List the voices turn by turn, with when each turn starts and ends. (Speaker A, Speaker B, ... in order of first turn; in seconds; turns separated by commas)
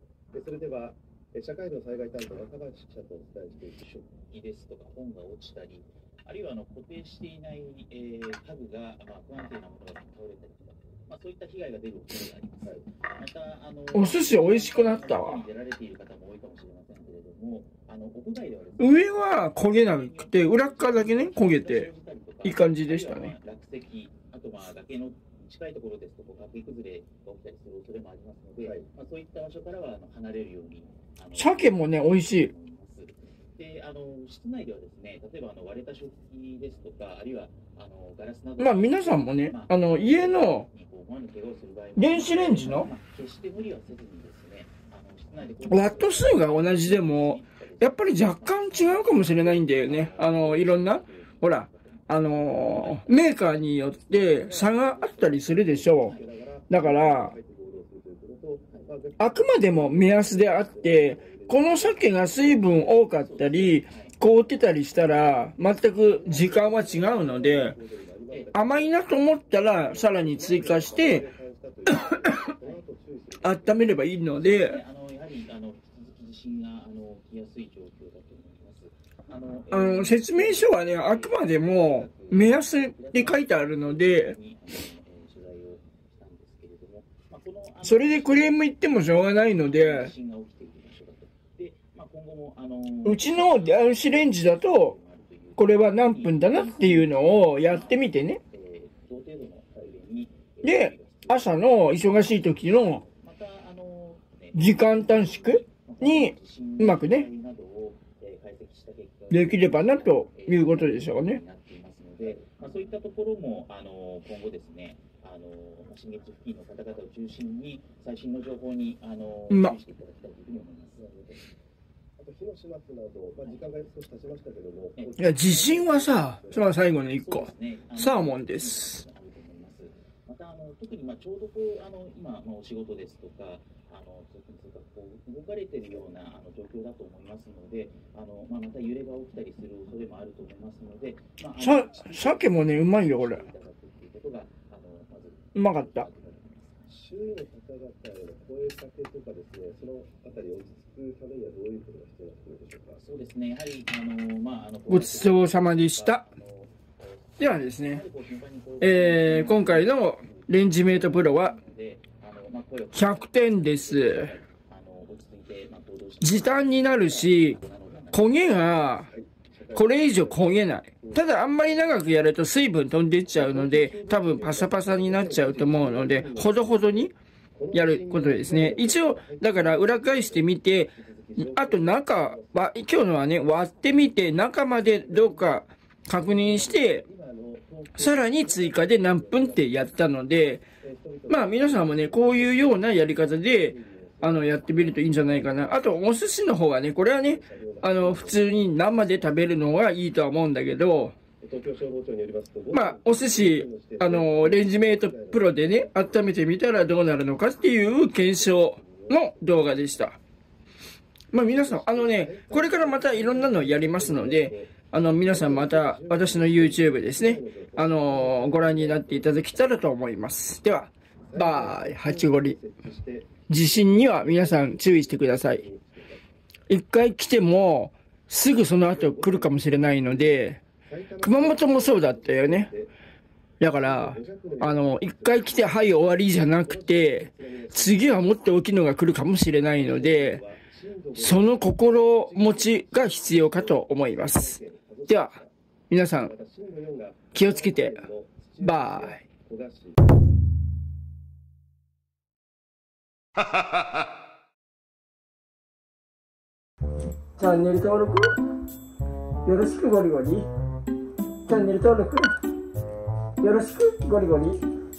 Speaker A: 0.3-4.0, Speaker B: 4.1-53.5, Speaker C: 13.9-15.4, Speaker C: 18.8-21.9, Speaker C: 22.4-23.3, Speaker A: 28.6-28.9, Speaker C: 31.4-32.5, Speaker C: 38.6-40.7, Speaker C: 42.0-42.9, Speaker C: 45.7-56.1, Speaker A: 54.1-62.9, Speaker B: 56.0-56.3, Speaker C: 56.7-57.4, Speaker C: 59.2-67.8, Speaker B: 62.4-64.5, Speaker A: 65.6-74.0, Speaker C: 68.5-71.3, Speaker B: 72.4-72.8, Speaker C: 73.4-74.8, Speaker B: 74.3-121.5, Speaker C: 79.7-84.4, Speaker C: 87.8-90.1, Speaker C: 93.0-95.0, Speaker C: 95.6-98.4, Speaker C: 100.6-103.0, Speaker C: 104.5-107.3, Speaker C: 109.3-111.4, Speaker A: 112.2-112.5, Speaker A: 121.0-121.3, Speaker A: 122.2-126.6, Speaker B: 125.0-146.9, Speaker C: 125.2-129.0, Speaker C: 141.6-143.5, Speaker C: 145.6-146.1, Speaker A: 146.9-153.0, Speaker B: 153.0-168.7, Speaker C: 154.9-156.2, Speaker C: 157.4-158.0, Speaker C: 158.8-161.6, Speaker C: 162.9-164.3, Speaker C: 166.2-167.6, Speaker C: 168.1-169.1, Speaker A: 168.9-171.9, Speaker C: 169.7-177.1, Speaker A: 173.3-182.6, Speaker C: 177.7-187.0, Speaker A: 184.9-189.9, Speaker C: 187.9-190.6, Speaker A: 190.6-195.9, Speaker C: 191.3-201.2, Speaker A: 197.2-199.5, Speaker A: 201.4-206.1, Speaker C: 202.7-210.2, Speaker A: 207.9-209.5, Speaker C: 211.3-222.6, Speaker A: 211.4-219.8, Speaker A: 221.2-226.3, Speaker C: 223.5-225.6, Speaker C: 226.7-230.6, Speaker A: 228.8-232.9, Speaker C: 231.2-232.7, Speaker C: 233.6-240.4, Speaker A: 233.7-238.4, Speaker A: 239.8-245.5, Speaker C: 241.2-245.3, Speaker C: 245.9-246.3, Speaker A: 246.2-250.0, Speaker C: 247.3-248.0, Speaker C: 248.6-249.2, Speaker C: 257.4-258.4, Speaker C: 259.4-260.5, Speaker C: 261.5-262.4, Speaker C: 263.4-264.6